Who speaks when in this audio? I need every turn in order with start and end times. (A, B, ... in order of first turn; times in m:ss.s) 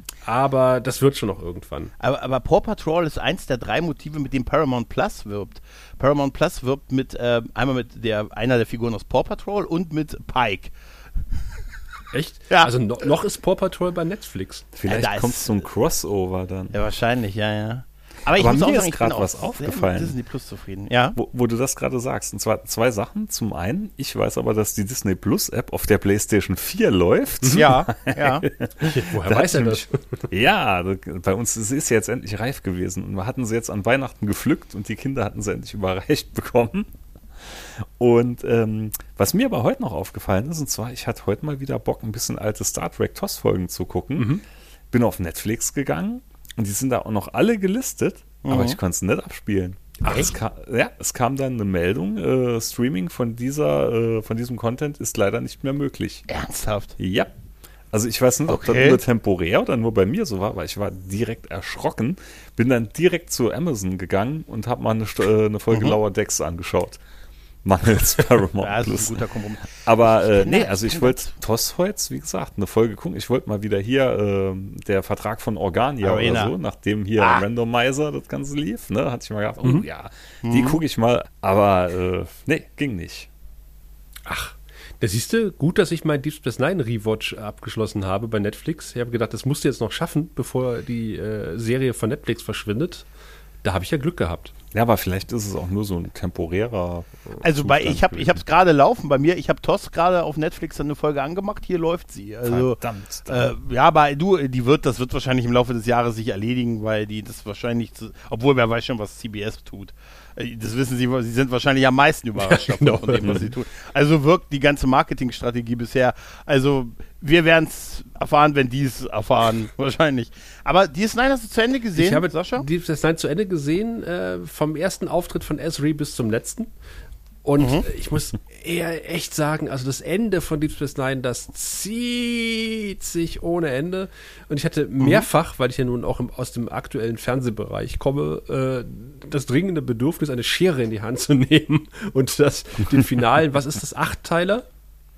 0:00.2-0:01.9 A
0:02.0-0:10.7 B
0:12.1-0:14.7 A
0:14.7-0:16.8 C
0:14.9-0:15.6 B
0:16.7-0:21.2 B
0:18.3-0:20.1 C
0:21.1-0:44.4 C
0:27.5-0:28.4 B
0:28.8-0:30.2 A
0:44.2-0:44.4 A
0:44.9-0:56.2 C
0:48.4-0:48.8 B
0:56.3-0:56.9 B
0:57.0-0:57.3 C
0:57.9-1:07.0 C
0:58.5-0:59.0 B
1:07.6-1:09.2 C
1:08.6-1:11.3 B
1:09.8-1:23.3 C
1:16.0-1:16.5 B
1:17.2-1:17.4 B
1:20.4-1:20.8 B
1:24.2-1:33.0 A
1:33.6-1:34.5 A
1:34.7-1:38.4 C
1:37.4-2:02.7 B
1:42.4-1:43.5 C
1:52.4-1:53.4 A
1:53.2-1:53.5 C
2:02.0-2:06.7 A
2:07.4-2:24.6 A
2:07.6-2:07.8 B
2:15.0-2:15.2 B